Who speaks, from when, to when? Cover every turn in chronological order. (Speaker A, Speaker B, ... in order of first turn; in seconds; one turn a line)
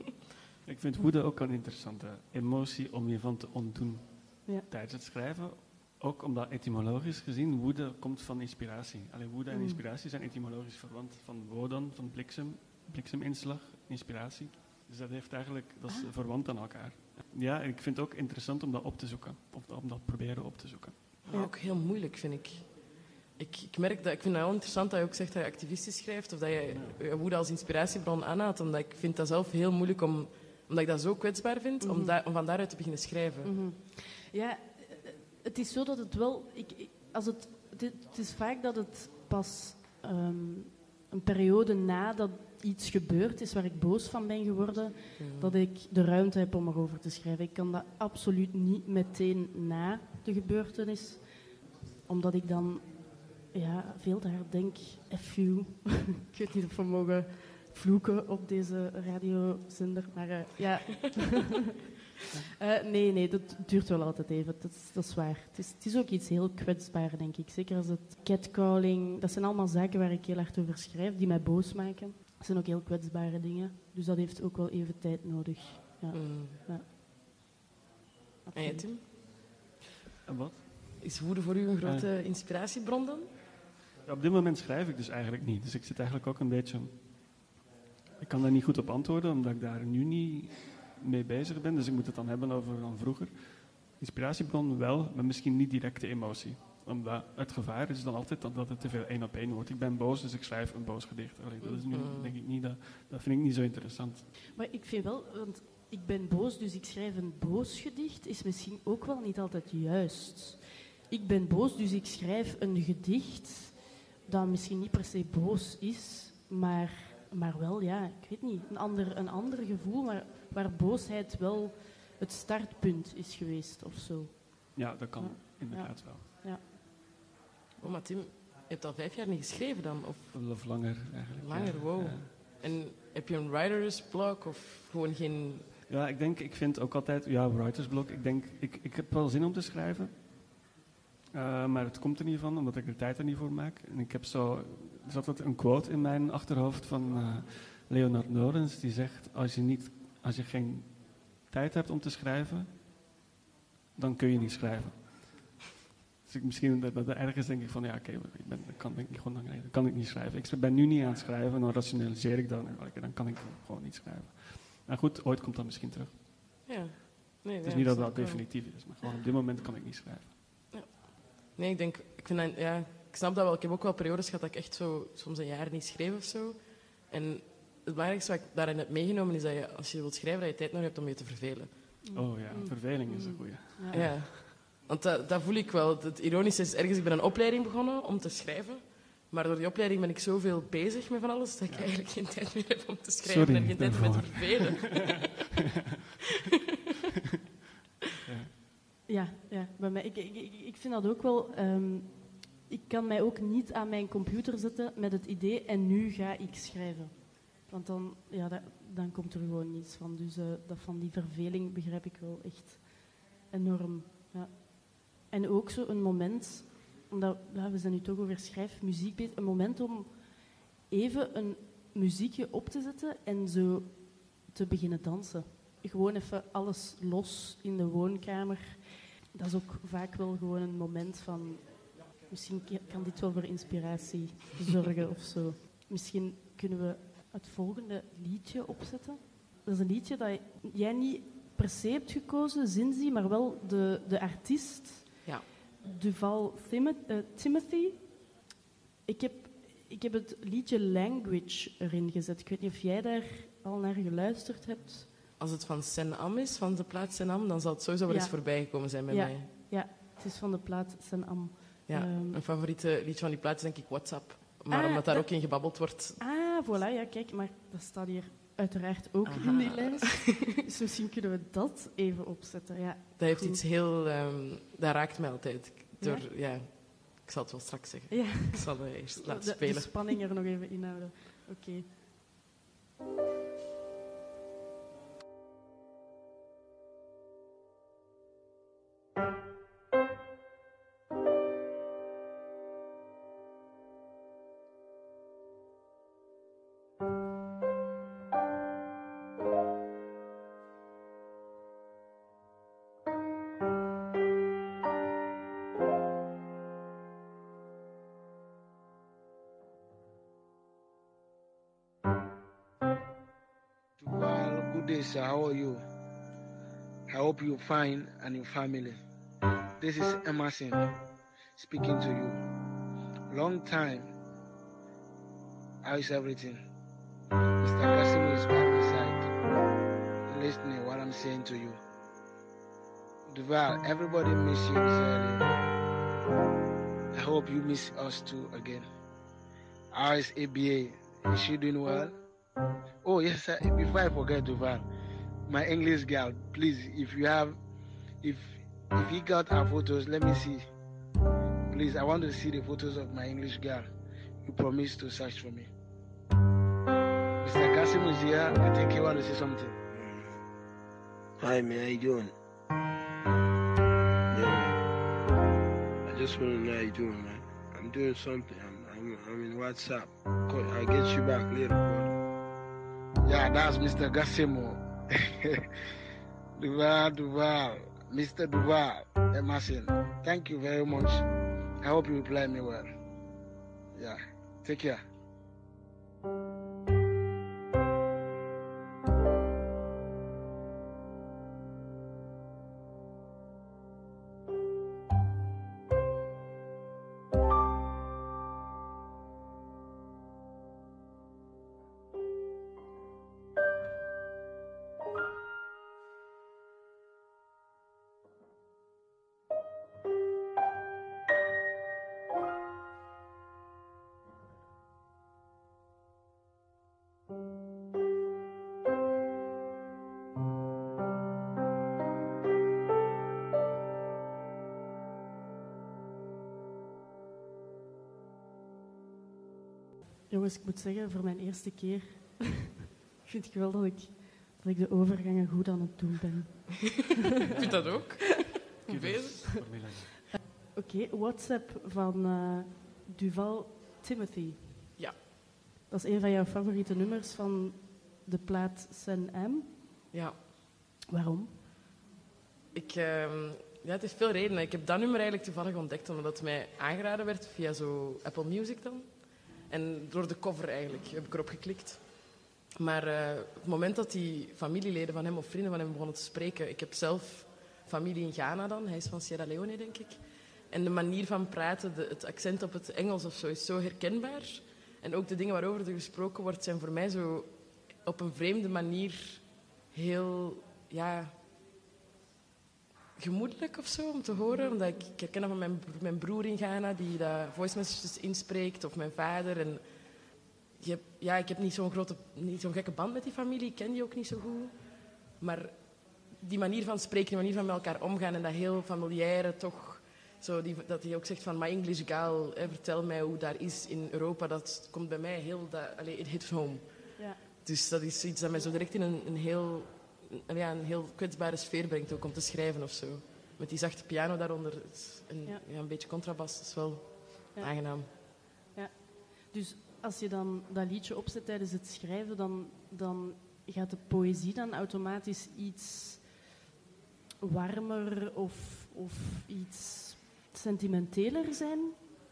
Speaker A: 0.6-20.9
Speaker B: 9.5-9.8
Speaker C: 21.2-22.7
Speaker C: 23.4-33.5
Speaker B: 31.8-32.2
Speaker B: 33.4-51.3
Speaker C: 45.2-45.5
Speaker B: 52.0-61.7
Speaker B: 62.6-76.8
Speaker C: 76.1-76.6
Speaker B: 78.5-78.9
Speaker C: 78.5-79.1
Speaker A: 80.2-81.1
Speaker C: 81.0-83.3
Speaker A: 81.8-82.1
Speaker A: 84.0-87.0
Speaker A: 88.2-93.3
Speaker A: 94.0-104.3
Speaker C: 101.9-102.3
Speaker B: 104.5-126.6
Speaker A: 124.7-126.2
Speaker C: 127.8-130.4
Speaker A: 130.3-132.3
Speaker C: 131.4-135.7
Speaker A: 135.9-140.2
Speaker A: 141.3-152.7
Speaker A: 153.9-155.5
Speaker A: 156.2-166.1
Speaker C: 166.7-168.5
Speaker A: 167.6-170.3
Speaker C: 170.7-181.7
Speaker B: 182.0-184.2
Speaker A: 182.1-184.3
Speaker C: 183.9-195.3
Speaker A: 193.2-195.1
Speaker A: 198.2-198.5
Speaker B: 199.1-220.3
Speaker B: 220.9-245.3
Speaker B: 245.8-248.1
Speaker B: 249.1-255.1
Speaker C: 255.4-259.5
Speaker B: 258.1-262.4
Speaker C: 261.9-266.2
Speaker B: 264.7-265.6
Speaker B: 266.2-273.6
Speaker C: 269.2-270.4
Speaker C: 273.2-280.1
Speaker B: 276.0-276.3
Speaker B: 278.1-281.9
Speaker D: 314.0-315.8
Speaker D: 317.1-319.0
Speaker D: 319.8-320.8
Speaker D: 321.6-322.4
Speaker D: 323.3-324.1
Speaker D: 325.8-326.6
Speaker D: 327.6-329.2
Speaker D: 330.3-331.8
Speaker D: 333.3-335.4
Speaker D: 337.1-338.9
Speaker D: 339.9-342.1
Speaker D: 343.0-344.8
Speaker D: 345.5-347.5
Speaker D: 348.2-350.6
Speaker D: 351.7-353.9
Speaker D: 354.4-355.7
Speaker D: 357.4-359.7
Speaker E: 359.9-360.4
Speaker E: 361.4-362.3
Speaker E: 364.3-364.8
Speaker E: 366.0-372.2
Speaker D: 373.2-375.7
Speaker D: 376.6-381.2
Speaker D: 381.8-382.9
Speaker D: 383.9-385.0
Speaker B: 430.3-437.2
Speaker C: 437.5-439.5
Speaker A: 437.5-438.0
Speaker A: 438.9-440.2
Speaker B: 440.7-445.0
Speaker B: 445.9-449.8
Speaker C: 450.1-450.4
Speaker B: 451.1-451.5
Speaker C: 452.7-462.0
Speaker C: 462.8-477.5
Speaker C: 478.0-481.4
Speaker C: 483.2-489.8
Speaker C: 490.8-494.7
Speaker C: 495.4-495.8
Speaker C: 496.3-506.8
Speaker C: 507.6-518.1
Speaker B: 517.5-526.3
Speaker B: 527.4-531.9